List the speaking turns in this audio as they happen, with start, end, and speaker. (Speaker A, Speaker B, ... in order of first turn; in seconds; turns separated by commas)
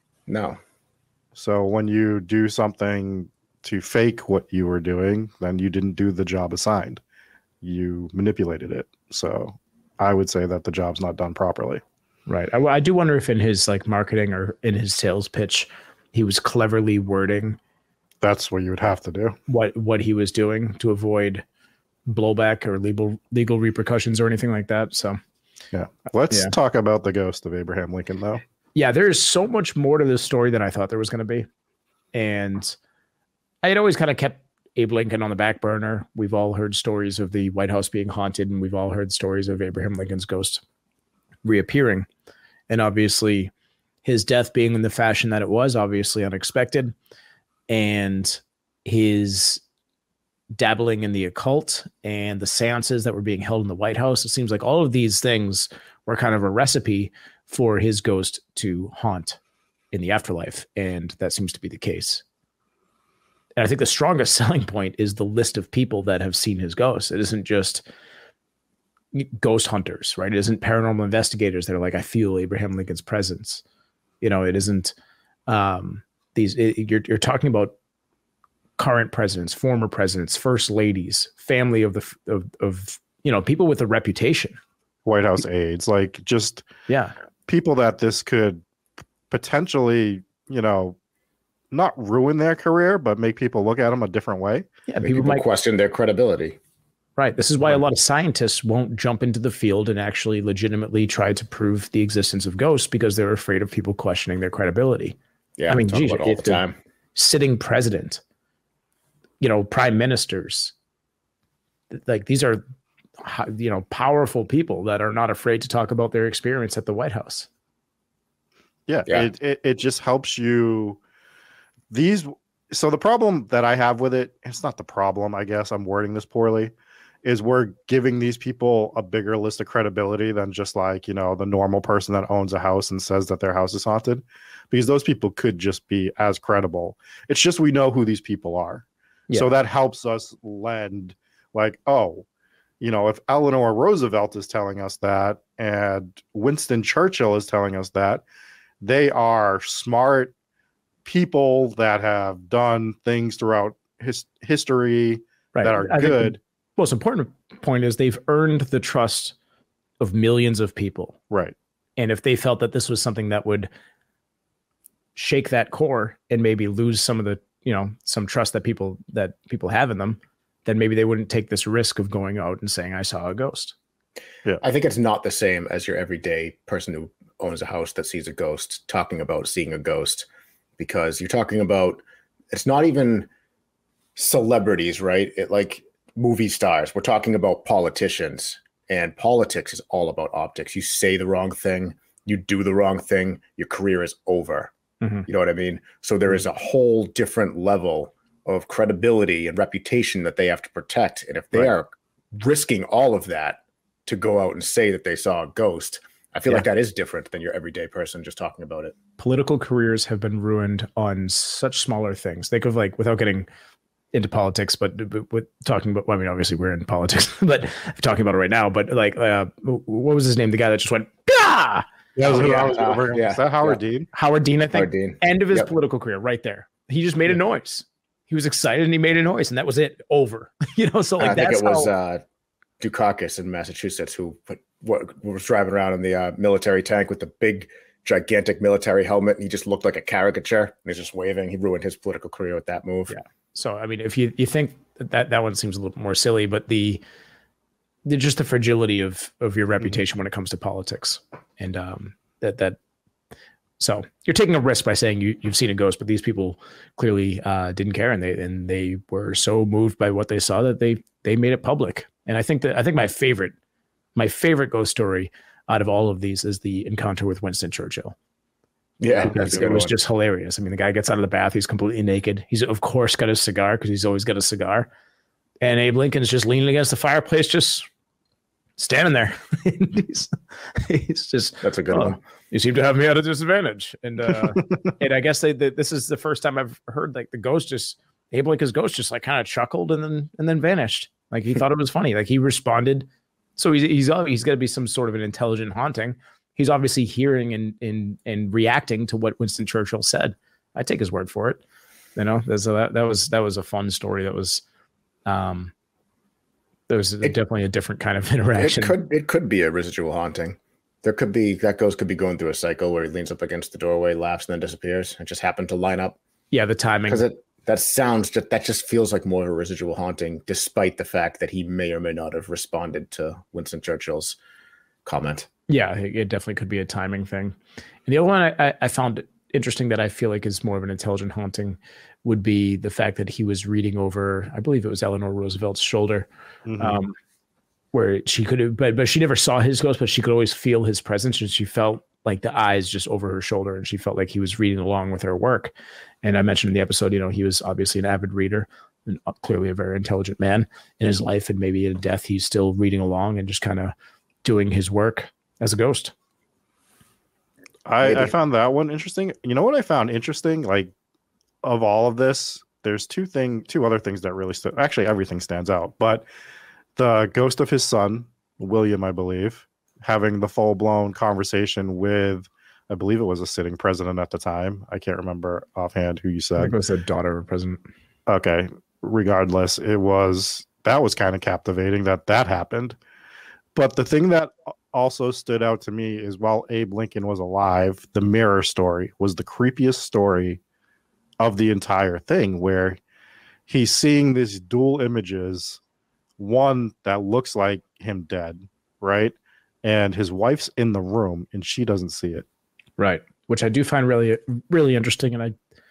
Speaker A: 0.3-0.6, Speaker B: 1.3-7.0, Speaker B: 7.6-11.8, Speaker C: 12.3-17.6, Speaker B: 18.2-19.4, Speaker C: 19.5-21.4, Speaker C: 22.1-25.2, Speaker B: 25.7-28.4, Speaker C: 28.7-31.5, Speaker C: 32.1-32.8, Speaker C: 33.6-40.6, Speaker C: 41.4-42.1, Speaker C: 42.7-43.5, Speaker C: 44.0-46.9, Speaker C: 47.7-49.6, Speaker C: 50.5-59.4, Speaker C: 59.9-62.2, Speaker C: 63.6-67.8, Speaker C: 69.1-73.6, Speaker C: 74.2-74.9, Speaker C: 75.5-77.7, Speaker C: 78.8-84.6, Speaker B: 85.0-86.7, Speaker C: 86.9-87.1, Speaker B: 87.5-88.6, Speaker B: 89.3-91.0, Speaker B: 91.7-94.7, Speaker C: 94.9-95.4, Speaker A: 95.0-96.6, Speaker C: 97.2-105.2, Speaker A: 105.6-106.7, Speaker C: 105.7-106.6, Speaker C: 107.1-108.2, Speaker C: 109.4-110.7, Speaker C: 111.9-112.6, Speaker C: 113.2-117.5, Speaker B: 118.9-121.0, Speaker B: 121.9-126.7, Speaker B: 127.2-142.2, Speaker B: 142.8-148.2, Speaker B: 148.8-150.3, Speaker B: 151.0-156.4, Speaker C: 155.5-159.3, Speaker C: 160.0-161.2, Speaker C: 162.0-163.7, Speaker C: 165.2-173.7, Speaker A: 174.6-180.3, Speaker A: 180.8-183.3, Speaker A: 184.2-194.7, Speaker C: 195.0-195.2, Speaker A: 195.3-208.9, Speaker C: 209.2-213.5, Speaker C: 214.1-221.8, Speaker B: 222.2-224.1, Speaker A: 222.2-223.8, Speaker C: 224.1-231.9, Speaker A: 224.7-225.7, Speaker A: 231.2-232.2, Speaker A: 232.8-243.1, Speaker C: 243.1-247.0, Speaker C: 248.0-252.8, Speaker C: 253.8-263.5, Speaker C: 264.1-268.1, Speaker A: 269.0-269.9, Speaker B: 269.2-269.6, Speaker C: 269.3-274.9, Speaker C: 275.6-277.9, Speaker C: 278.8-301.6, Speaker A: 281.6-282.2, Speaker C: 302.1-304.6, Speaker C: 305.2-305.7, Speaker C: 306.9-308.9, Speaker A: 308.6-316.2, Speaker C: 316.5-317.2, Speaker A: 317.1-324.4, Speaker A: 325.0-325.5, Speaker C: 325.7-327.5, Speaker C: 328.1-337.1, Speaker B: 336.6-337.0, Speaker C: 337.9-345.7, Speaker C: 346.2-356.1, Speaker B: 357.9-360.9, Speaker A: 358.0-358.3, Speaker B: 361.6-366.2, Speaker B: 366.9-376.7, Speaker C: 376.6-377.8, Speaker B: 378.3-383.0, Speaker B: 383.7-390.6, Speaker B: 391.4-393.0, Speaker B: 393.7-395.8, Speaker B: 396.4-402.4, Speaker C: 403.0-405.5